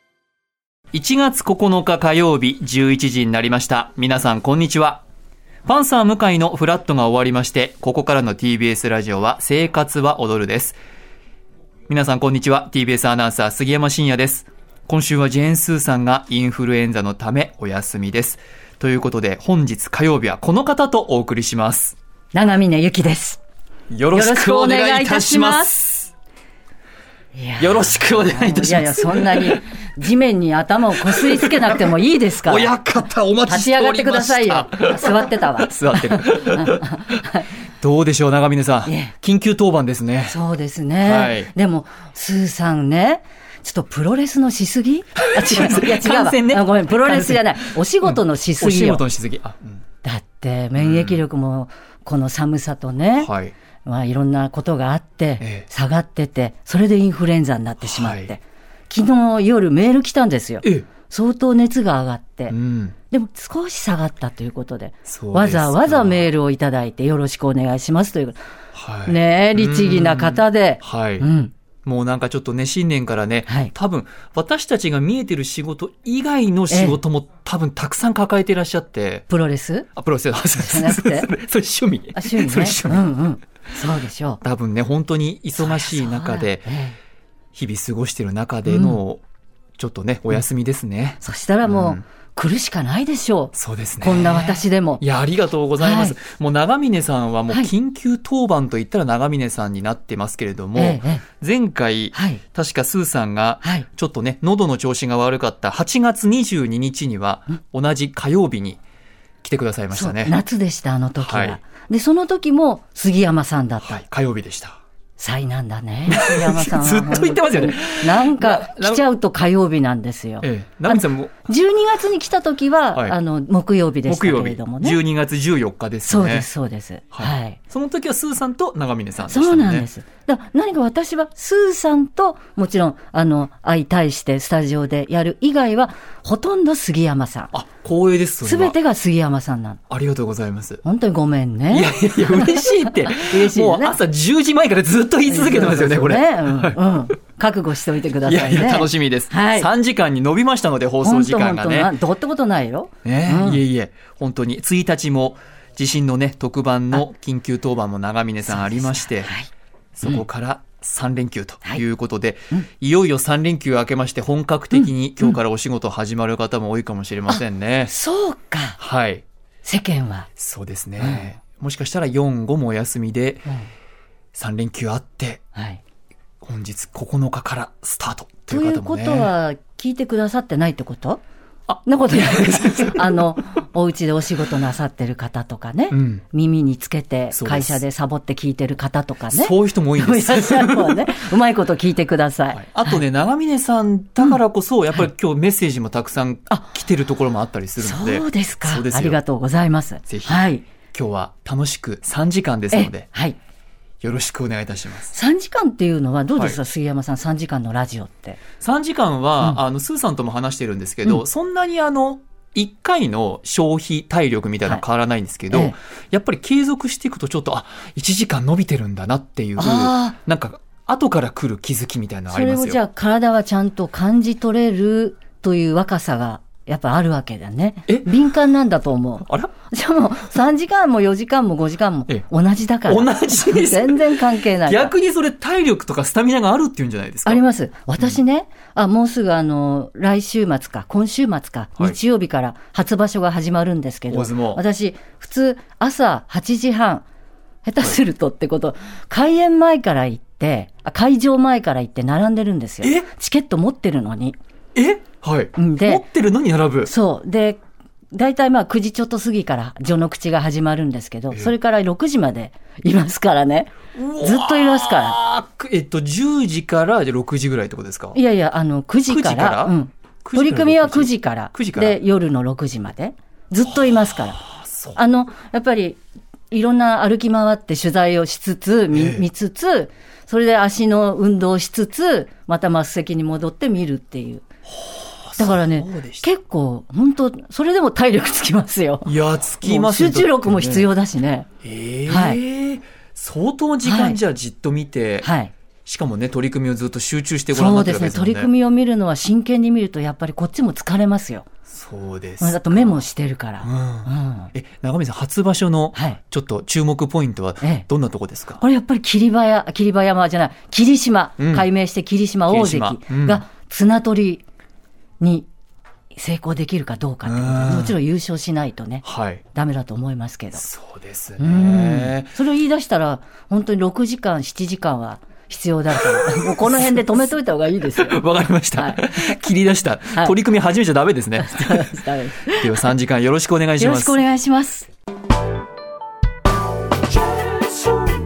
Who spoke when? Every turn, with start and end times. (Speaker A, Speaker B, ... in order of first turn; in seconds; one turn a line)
Speaker A: 0.9-5.0
Speaker A: 5.6-10.8
Speaker A: 11.9-21.9
Speaker B: 22.3-23.4
Speaker A: 23.9-26.1
Speaker B: 24.1-25.7
Speaker B: 27.3-32.7
Speaker A: 27.6-29.6
Speaker A: 31.0-31.9
Speaker A: 32.4-37.2
Speaker B: 33.4-37.5
Speaker A: 37.8-40.4
Speaker B: 38.9-39.1
Speaker B: 40.2-49.0
Speaker A: 41.0-41.5
Speaker A: 45.2-49.8
Speaker B: 50.0-53.3
Speaker A: 50.8-51.2
Speaker A: 53.2-53.5
Speaker B: 53.8-62.5
Speaker A: 57.8-58.3
Speaker A: 62.5-62.9
Speaker B: 63.1-68.4
Speaker A: 65.0-66.3
Speaker A: 68.7-71.3
Speaker B: 69.0-71.5
Speaker A: 71.8-79.2
Speaker B: 73.5-73.7
Speaker B: 76.7-77.0
Speaker B: 79.3-79.9
Speaker A: 80.0-83.0
Speaker B: 80.6-81.3
Speaker B: 82.1-84.4
Speaker A: 84.4-86.7
Speaker B: 85.6-87.0
Speaker A: 87.5-89.2
Speaker B: 88.7-89.0
Speaker A: 89.8-92.0
Speaker B: 91.2-95.0
Speaker A: 93.5-108.8
Speaker B: 95.8-96.2
Speaker B: 100.8-101.2
Speaker B: 102.1-102.4
Speaker A: 109.4-110.3
Speaker B: 109.9-114.0
Speaker A: 111.2-111.6
Speaker A: 113.8-114.8
Speaker B: 115.2-125.0
Speaker A: 116.1-119.0
Speaker A: 120.4-121.3
Speaker A: 124.1-126.5
Speaker B: 126.0-127.6
Speaker A: 127.1-129.9
Speaker B: 129.3-137.5
Speaker A: 137.5-138.8
Speaker B: 138.4-139.8
Speaker A: 139.9-140.8
Speaker B: 140.8-144.0
Speaker A: 141.7-146.8
Speaker B: 145.3-149.7
Speaker A: 148.2-151.9
Speaker B: 151.0-153.6
Speaker A: 153.0-159.3
Speaker B: 158.5-159.5
Speaker A: 159.9-167.9
Speaker B: 164.7-165.3
Speaker B: 167.3-168.8
Speaker A: 168.8-169.2
Speaker B: 169.6-170.3
Speaker A: 170.4-173.5
Speaker B: 171.0-171.2
Speaker A: 174.3-175.4
Speaker B: 175.5-175.8
Speaker A: 176.4-179.3
Speaker B: 178.5-181.2
Speaker A: 181.7-183.2
Speaker B: 181.8-193.0
Speaker A: 185.9-186.2
Speaker A: 187.3-187.8
Speaker A: 189.3-191.0
Speaker A: 192.5-199.2
Speaker B: 197.8-200.7
Speaker A: 200.1-203.1
Speaker B: 202.7-203.4
Speaker A: 204.0-205.1
Speaker B: 205.1-208.4
Speaker A: 208.6-222.8
Speaker B: 219.6-220.2
Speaker B: 222.3-234.9
Speaker A: 229.2-229.5
Speaker A: 232.8-237.4
Speaker B: 237.2-247.0
Speaker A: 244.1-244.6
Speaker B: 247.6-254.4
Speaker A: 252.8-253.1
Speaker A: 254.7-256.9
Speaker B: 255.6-256.0
Speaker B: 256.8-257.6
Speaker B: 258.1-265.2
Speaker A: 263.9-268.2
Speaker B: 268.1-276.0
Speaker A: 269.1-272.0
Speaker A: 274.4-275.0
Speaker B: 276.5-284.4
Speaker A: 278.9-279.2
Speaker A: 284.7-286.2
Speaker B: 285.4-291.5
Speaker A: 289.0-290.9
Speaker A: 291.6-295.3
Speaker B: 292.1-292.4
Speaker B: 293.8-294.2
Speaker B: 295.2-295.5
Speaker A: 295.8-298.5
Speaker B: 297.5-301.5
Speaker A: 301.7-303.0
Speaker B: 302.4-304.5
Speaker A: 303.6-308.6
Speaker B: 305.9-306.2
Speaker B: 308.6-314.4
Speaker A: 311.4-311.7
Speaker A: 312.5-313.4
Speaker B: 315.2-315.5
Speaker B: 316.1-320.6
Speaker A: 317.2-317.9
Speaker A: 319.0-319.4
Speaker A: 320.5-322.3
Speaker B: 321.4-328.2
Speaker A: 326.3-327.1
Speaker A: 327.9-331.9
Speaker B: 328.8-329.4
Speaker B: 331.4-332.9
Speaker A: 332.5-334.2
Speaker B: 333.8-334.9